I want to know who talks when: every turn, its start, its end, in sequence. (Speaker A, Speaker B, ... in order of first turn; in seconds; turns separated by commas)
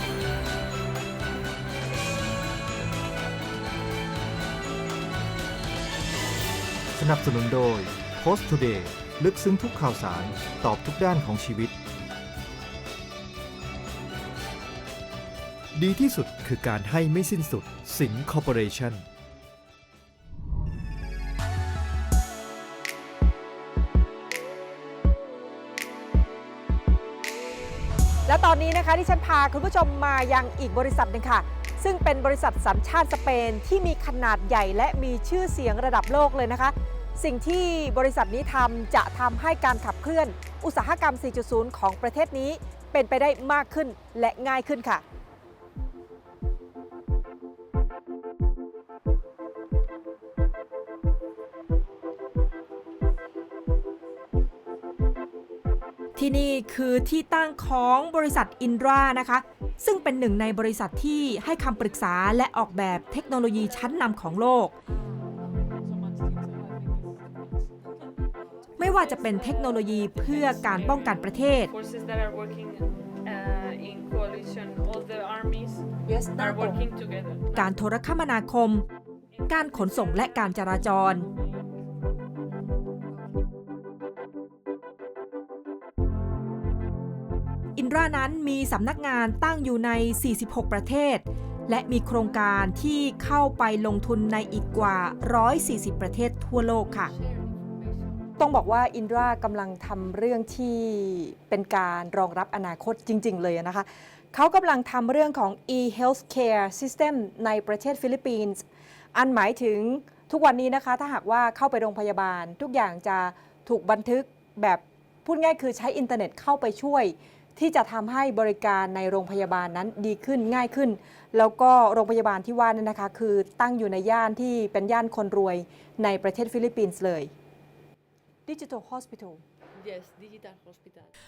Speaker A: 6.9-11.7, Speaker A: 15.7-19.1, Speaker B: 28.3-45.0, Speaker B: 56.2-64.7, Speaker C: 63.0-64.1, Speaker C: 64.9-77.8, Speaker B: 68.8-71.7, Speaker B: 76.0-76.8, Speaker B: 77.5-78.8, Speaker C: 79.3-81.8, Speaker B: 79.5-81.3, Speaker C: 83.0-83.5, Speaker B: 87.8-97.1, Speaker C: 94.3-95.2, Speaker C: 96.8-98.8, Speaker B: 98.4-108.6, Speaker B: 109.1-127.3, Speaker B: 128.5-129.4, Speaker C: 129.7-131.1